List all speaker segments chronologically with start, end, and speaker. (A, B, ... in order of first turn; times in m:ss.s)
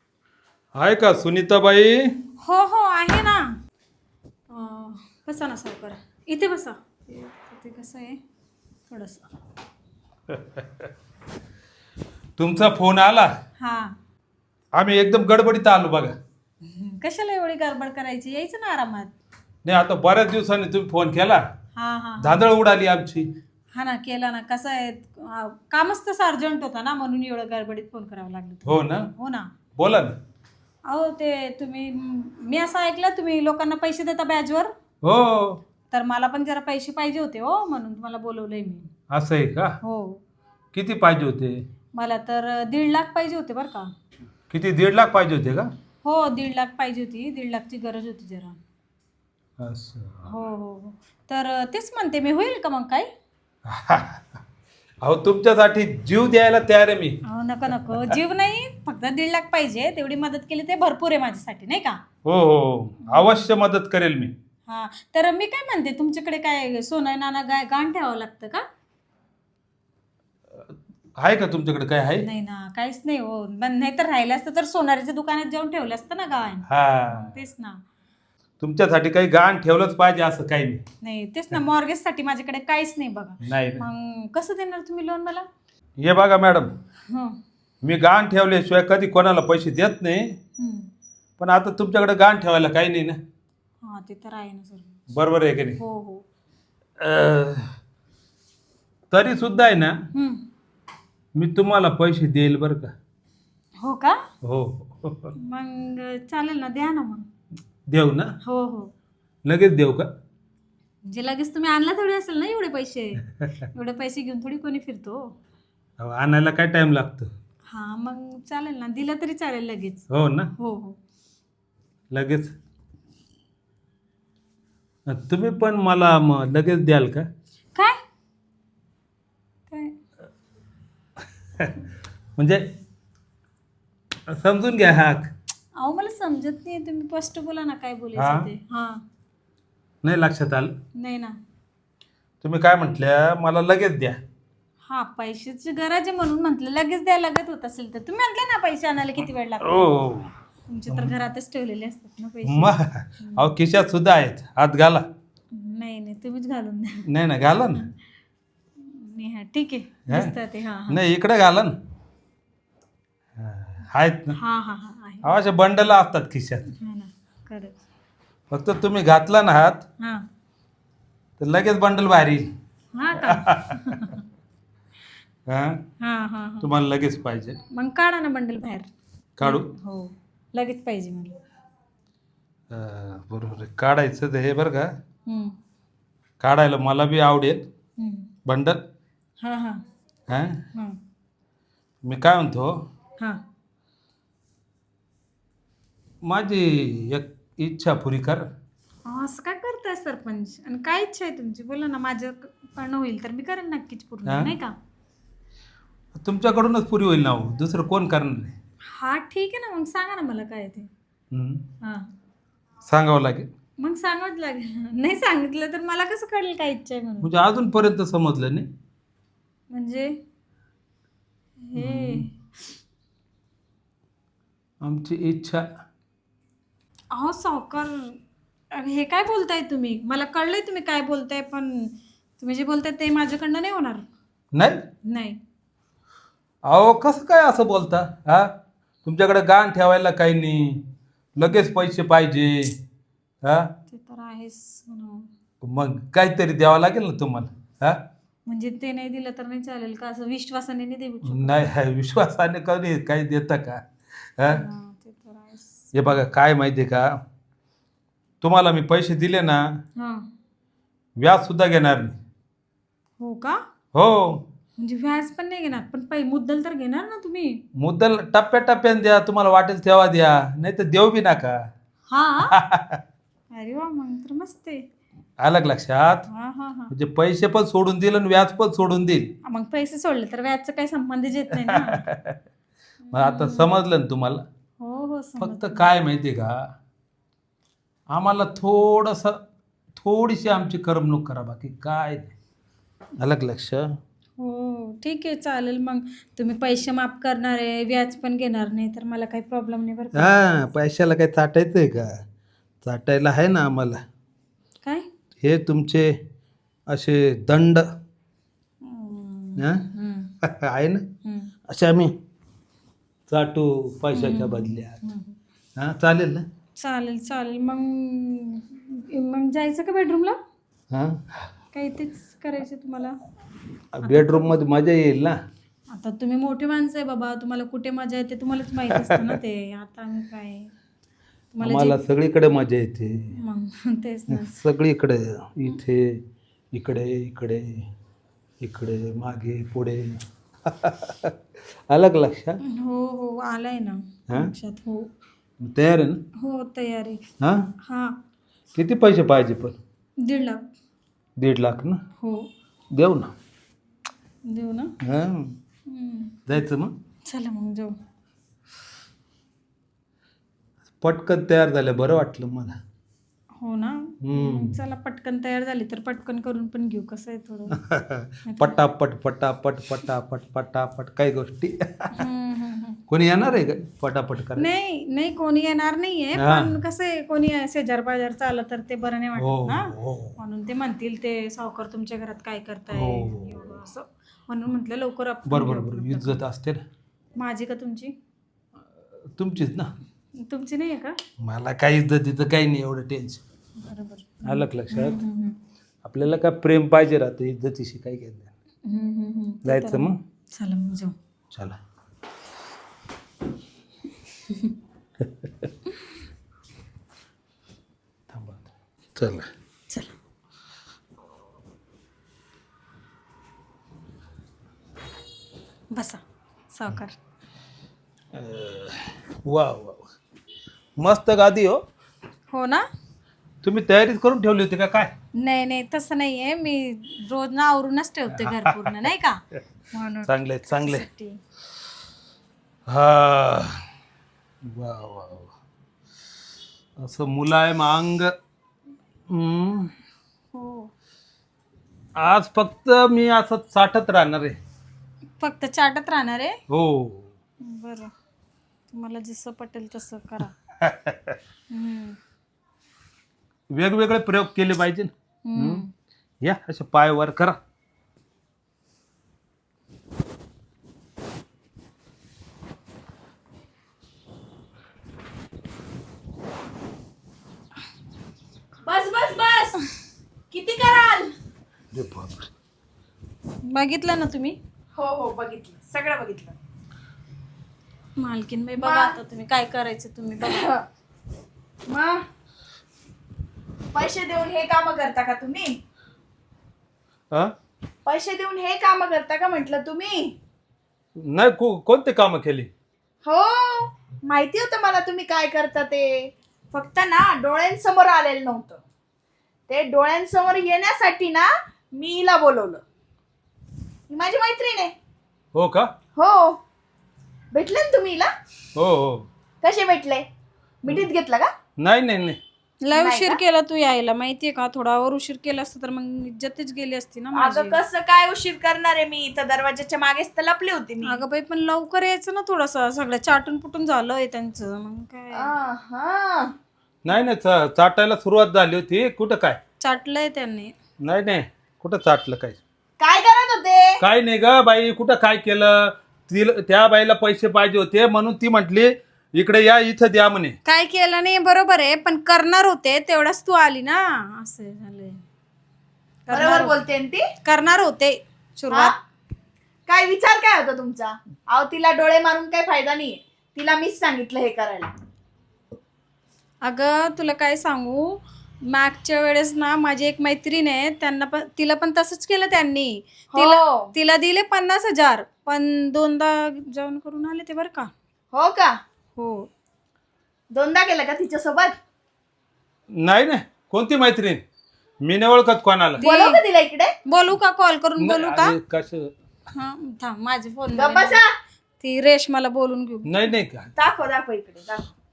0:00.7-0:02.0 A
0:02.4-0:03.4 B
0:04.5-0:08.2 B
0:08.9-0:09.3 B
0:10.3-0:10.9 A
0:12.4-0:13.3 A
0:13.6-0:14.0 B
0:14.7-0:16.1 A
0:16.6-0:19.1 B
0:19.6-0:21.4 A
0:21.8-0:22.4 B
0:22.2-0:23.3 A
0:23.7-0:29.5 B
0:28.6-0:29.1 A
0:29.8-0:30.2 A
0:30.9-0:34.7 B
0:35.0-0:35.6 A
0:35.9-0:38.9 B
0:39.1-0:39.8 A
0:39.8-0:40.2 B
0:40.7-0:41.6 A
0:41.9-0:43.9 B
0:44.5-0:45.7 A
0:46.0-0:48.6 B
0:49.6-0:50.3 A
0:50.2-0:53.1 B
0:53.7-0:54.4 A
0:55.0-0:57.2 A
0:57.3-1:02.0 B
0:57.9-0:58.2 A
1:02.2-1:04.3 A
1:03.0-1:03.4 B
1:04.7-1:08.6 B
1:11.2-1:12.3 A
1:12.2-1:17.8 B
1:16.7-1:17.4 A
1:18.6-1:20.8 A
1:21.0-1:25.4 B
1:23.4-1:23.8 A
1:26.0-1:26.8 A
1:27.1-1:27.4 B
1:27.8-1:30.4 A
1:30.6-1:30.9 B
1:31.4-1:33.2 A
1:33.8-1:35.0 B
1:35.1-1:35.8 A
1:35.8-1:36.2 B
1:37.0-1:37.7 A
1:39.1-1:40.0 A
1:40.1-1:40.4 B
1:41.4-1:42.9 A
1:43.8-1:44.2 B
1:44.4-1:45.3 A
1:45.4-1:47.3 B
1:47.9-1:48.4 A
1:48.4-1:48.9 B
1:49.4-1:50.1 A
1:51.1-1:55.2 B
1:56.0-1:57.3 A
1:57.7-2:00.0 B
2:00.1-2:00.5 A
2:00.6-2:01.0 B
2:02.1-2:02.5 A
2:05.1-2:07.3 A
2:09.7-2:10.0 B
2:11.6-2:11.9 A
2:12.4-2:12.6 A
2:14.3-2:15.3 A
2:15.8-2:19.0 B
2:18.2-2:18.5 A
2:20.0-2:20.7 A
2:21.0-2:21.4 B
2:22.4-2:24.2 A
2:24.9-2:30.0 B
2:29.6-2:30.3 A
2:30.7-2:33.5 B
2:32.5-2:35.0 A
2:35.5-2:37.1 B
2:37.1-2:37.8 A
2:38.8-2:41.0 B
2:40.1-2:40.3 A
2:40.9-2:41.8 A
2:43.4-2:44.4 A
2:44.4-2:45.3 B
2:45.2-2:46.6 A
2:46.7-2:47.8 B
2:48.5-2:49.8 A
2:51.4-2:52.5 A
2:52.9-2:54.2 B
2:53.3-2:53.8 A
2:55.5-2:55.8 A
2:56.0-2:56.7 B
2:56.6-2:57.6 A
2:57.7-2:58.9 B
2:59.4-2:59.7 A
2:59.4-3:01.4 B
3:02.7-3:04.9 A
3:05.3-3:05.6 B
3:06.4-3:07.7 A
3:08.0-3:08.3 B
3:08.4-3:08.8 A
3:09.4-3:09.8 B
3:10.3-3:10.6 A
3:12.0-3:12.9 A
3:16.2-3:18.4 A
3:19.1-3:24.7 B
3:24.3-3:24.5 A
3:26.2-3:28.6 A
3:28.9-3:30.9 B
3:31.3-3:31.6 A
3:31.8-3:32.1 B
3:32.9-3:33.5 A
3:33.8-3:37.3 B
3:37.2-3:38.7 A
3:39.7-3:40.1 B
3:41.7-3:42.3 B
3:41.8-3:42.3 A
3:44.8-3:45.6 A
3:47.1-3:48.2 B
3:48.7-3:54.1 B
3:54.5-3:54.8 A
3:55.1-3:55.4 B
3:56.6-3:58.5 A
3:59.0-4:00.8 A
4:01.4-4:02.8 A
4:01.4-4:01.7 B
4:03.4-4:03.7 A
4:03.9-4:05.3 B
4:05.6-4:08.0 A
4:08.5-4:11.6 B
4:11.2-4:13.8 A
4:14.4-4:14.6 A
4:14.5-4:15.8 B
4:15.9-4:17.1 A
4:18.4-4:19.6 A
4:20.0-4:20.3 B
4:21.2-4:22.2 A
4:23.2-4:23.6 B
4:23.9-4:24.4 A
4:24.8-4:27.6 B
4:27.8-4:31.6 A
4:32.1-4:32.5 B
4:32.5-4:33.0 A
4:33.5-4:34.8 B
4:35.4-4:36.3 A
4:36.3-4:36.9 B
4:36.9-4:39.3 A
4:39.5-4:42.0 B
4:41.5-4:42.4 A
4:43.1-4:43.7 B
4:43.1-4:44.4 A
4:44.8-4:45.8 B
4:45.4-4:46.6 A
4:48.1-4:49.4 A
4:49.9-4:52.3 A
4:53.2-4:54.0 A
4:54.4-5:00.6 B
5:00.2-5:02.1 A
5:02.8-5:04.0 A
5:05.4-5:06.1 A
5:06.9-5:07.9 A
5:08.8-5:10.3 B
5:09.6-5:09.8 A
5:10.4-5:11.0 A
5:11.2-5:11.5 B
5:11.7-5:12.1 A
5:13.3-5:15.0 A
5:14.1-5:15.4 B
5:15.8-5:16.4 A
5:16.8-5:20.4 B
5:20.9-5:21.5 A
5:21.7-5:23.2 B
5:23.9-5:25.4 A
5:24.0-5:24.6 B
5:25.9-5:30.7 B
5:28.9-5:29.4 A
5:31.5-5:32.0 B
5:31.6-5:33.4 A
5:33.3-5:34.6 B
5:34.3-5:36.2 A
5:36.7-5:37.9 A
5:38.6-5:41.3 A
5:41.9-5:42.6 A
5:42.6-5:45.1 B
5:45.6-5:46.2 A
5:46.4-5:47.2 B
5:47.4-5:47.7 A
5:47.8-5:48.2 B
5:48.7-5:49.8 A
5:50.2-5:50.6 B
5:51.4-5:52.0 A
5:52.2-5:52.5 B
5:52.9-5:53.3 A
5:54.5-5:55.0 B
5:55.0-5:55.6 A
5:55.9-5:56.4 B
5:56.5-5:57.0 A
5:57.3-5:58.0 B
6:01.0-6:02.7 A
6:03.6-6:07.8 B
6:04.2-6:04.8 A
6:07.8-6:12.1 A
6:08.5-6:08.8 B
6:12.2-6:13.0 B
6:13.1-6:14.7 A
6:14.6-6:26.4 B
6:16.4-6:16.8 A
6:19.4-6:20.4 A
6:22.9-6:23.7 A
6:25.5-6:26.8 A
6:27.4-6:28.1 B
6:29.4-6:29.9 A
6:30.4-6:31.2 B
6:31.4-6:33.4 A
6:33.8-6:35.6 B
6:34.4-6:35.2 A
6:36.0-6:38.5 A
6:38.8-6:41.2 B
6:39.6-6:40.2 A
6:45.4-6:45.7 A
6:48.3-6:49.5 A
6:49.9-6:50.1 B
6:55.9-6:56.2 B
6:56.7-6:57.2 B
6:58.3-7:00.1 A
7:01.0-7:01.8 A
7:02.5-7:02.8 B
7:03.6-7:05.1 A
7:05.4-7:11.3 B
7:08.4-7:09.0 A
7:10.3-7:11.1 A
7:12.9-7:13.8 A
7:14.6-7:15.5 A
7:17.0-7:18.3 A
7:19.3-7:19.9 A
7:20.5-7:20.9 B
7:22.2-7:24.6 A
7:25.4-7:26.6 B
7:26.7-7:27.3 A
7:27.6-7:28.1 B
7:28.9-7:30.5 B
7:30.8-7:31.4 A
7:31.7-7:32.2 B
7:33.7-7:35.8 A
7:35.4-7:35.9 B
7:36.4-7:37.6 A
7:48.8-7:49.8 C
7:50.5-7:51.3 C
7:51.9-7:52.5 A
7:53.6-7:54.6 B
7:55.0-7:56.5 C
7:58.2-8:00.7 B
7:58.8-7:59.2 C
8:00.5-8:00.8 C
8:01.9-8:02.2 C
8:03.9-8:05.8 C
8:08.1-8:10.3 C
8:11.2-8:12.7 A
8:13.2-8:16.2 C
8:16.7-8:18.8 C
8:19.7-8:22.8 C
8:24.1-8:24.9 C
8:25.5-8:25.9 A
8:26.2-8:26.6 C
8:27.5-8:28.3 C
8:28.8-8:29.3 A
8:29.6-8:30.2 C
8:30.8-8:31.5 C
8:31.8-8:32.4 A
8:32.8-8:37.8 B
8:33.0-8:33.4 C
8:37.3-8:41.2 C
8:41.0-8:45.5 B
8:45.3-8:46.5 C
8:47.0-8:49.6 A
8:49.8-8:50.7 B
8:51.0-8:52.6 A
8:53.0-8:54.0 C
8:54.0-9:00.6 A
9:00.6-9:05.2 B
9:06.3-9:06.7 B
9:06.3-9:07.2 C
9:07.4-9:08.9 B
9:09.9-9:14.9 C
9:16.6-9:27.9 B
9:23.3-9:23.9 C
9:28.3-9:28.8 C
9:29.2-9:29.5 B
9:30.5-9:31.8 C
9:33.0-9:34.4 A
9:35.0-9:36.0 A
9:36.0-9:36.4 B
9:36.0-9:36.9 C
9:37.1-9:38.6 B
9:38.0-9:39.1 A
9:39.5-9:41.2 B
9:40.8-9:41.3 C
9:41.8-9:43.2 B
9:43.1-9:43.7 A
9:43.8-9:44.9 C